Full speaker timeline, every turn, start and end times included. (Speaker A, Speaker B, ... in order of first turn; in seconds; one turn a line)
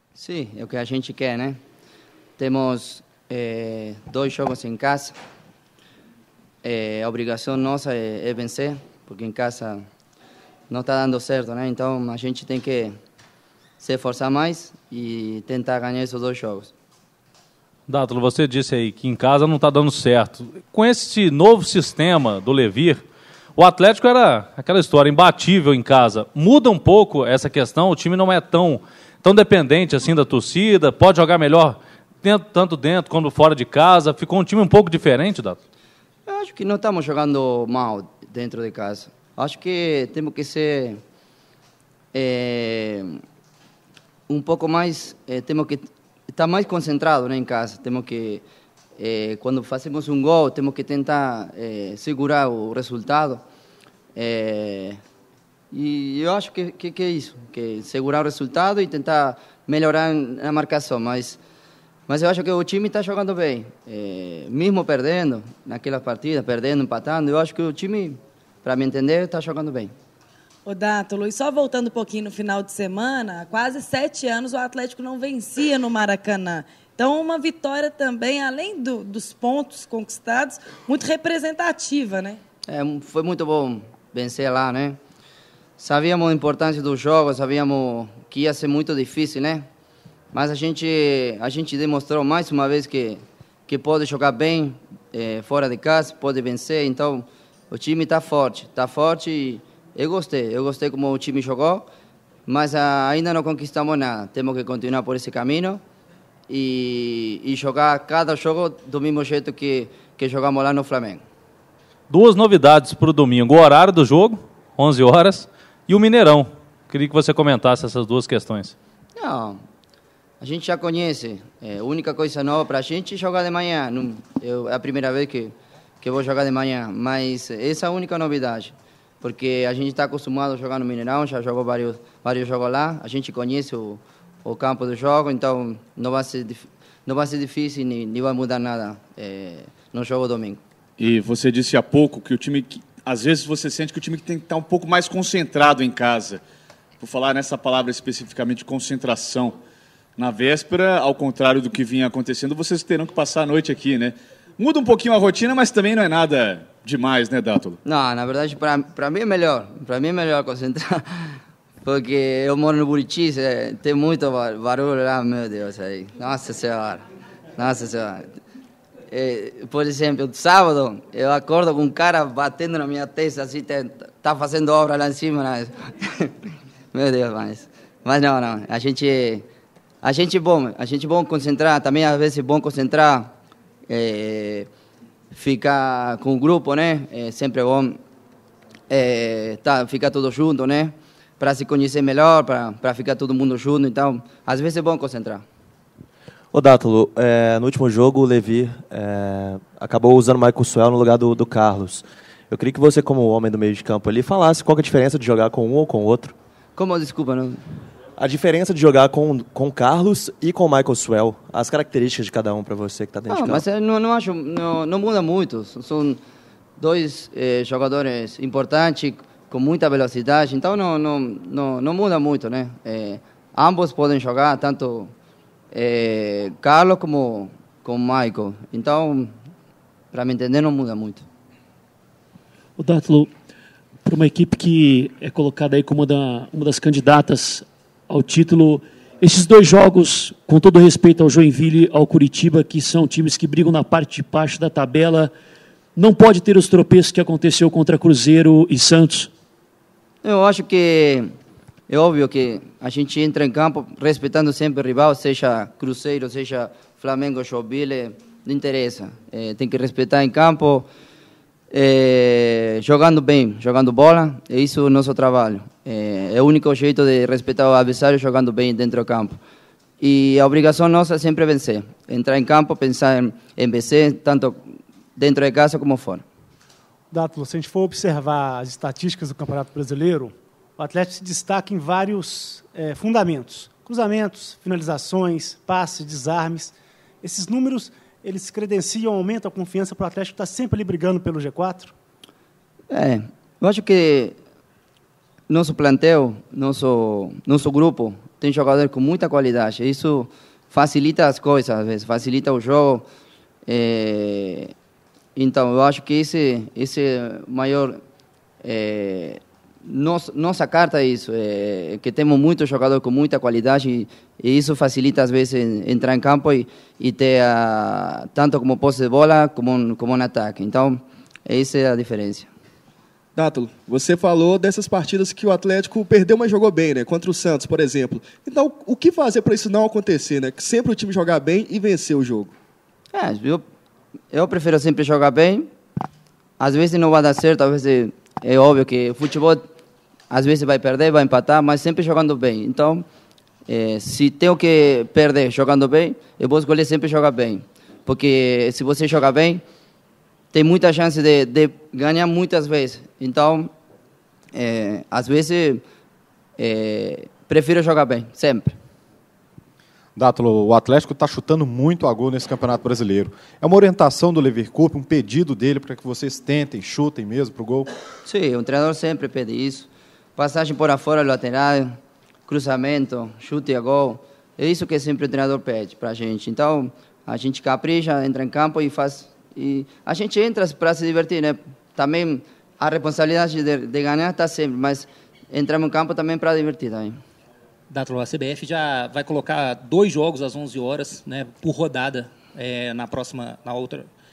Speaker A: 0.1-1.6
Speaker A: 2.4-5.2
Speaker A: 6.6-9.8
Speaker A: 10.7-12.9
Speaker A: 13.8-16.7
Speaker B: 17.9-23.0
Speaker B: 23.6-35.6
Speaker A: 36.3-41.0
Speaker A: 42.1-43.1
Speaker A: 44.3-48.4
Speaker A: 49.0-53.4
Speaker A: 54.1-55.0
Speaker A: 55.7-61.4
Speaker A: 62.1-69.9
Speaker C: 70.7-82.4
Speaker A: 82.7-85.0
Speaker A: 85.8-89.6
Speaker A: 90.3-101.9
Speaker A: 102.5-105.8
Speaker A: 106.5-111.2
Speaker B: 112.1-118.7
Speaker A: 119.2-119.6
Speaker A: 120.4-140.6
Speaker D: 141.0-146.4
Speaker D: 147.0-149.6
Speaker D: 150.2-157.8
Speaker A: 157.8-167.0
Speaker A: 167.6-168.3
Speaker A: 169.1-176.3
Speaker A: 176.9-179.4
Speaker A: 180.0-183.3
Speaker A: 183.9-184.7
Speaker A: 185.3-188.0
Speaker A: 188.9-195.4
Speaker E: 196.5-206.3
Speaker A: 206.8-207.6
Speaker E: 208.2-213.6
Speaker A: 213.3-216.2
Speaker A: 216.8-225.1
Speaker A: 225.7-229.3
Speaker A: 230.1-231.2
Speaker F: 232.8-233.3
Speaker F: 234.1-245.3
Speaker F: 246.0-249.3
Speaker A: 250.2-251.3
Speaker A: 251.9-260.9
Speaker A: 261.7-269.4
Speaker A: 270.0-274.6
Speaker A: 275.2-276.2
Speaker G: 277.1-291.9
Speaker A: 292.9-294.4
Speaker A: 295.5-303.1
Speaker A: 303.7-304.7
Speaker A: 305.4-308.0
Speaker A: 308.6-322.5
Speaker H: 323.4-332.5
Speaker A: 333.1-333.6
Speaker A: 334.3-335.7
Speaker A: 336.6-339.7
Speaker A: 340.3-343.0
Speaker A: 343.7-349.6
Speaker A: 350.5-353.7
Speaker A: 354.5-355.8
Speaker A: 356.6-358.8
Speaker I: 360.2-367.9
Speaker A: 368.3-371.9
Speaker A: 372.5-387.2
Speaker J: 387.9-394.1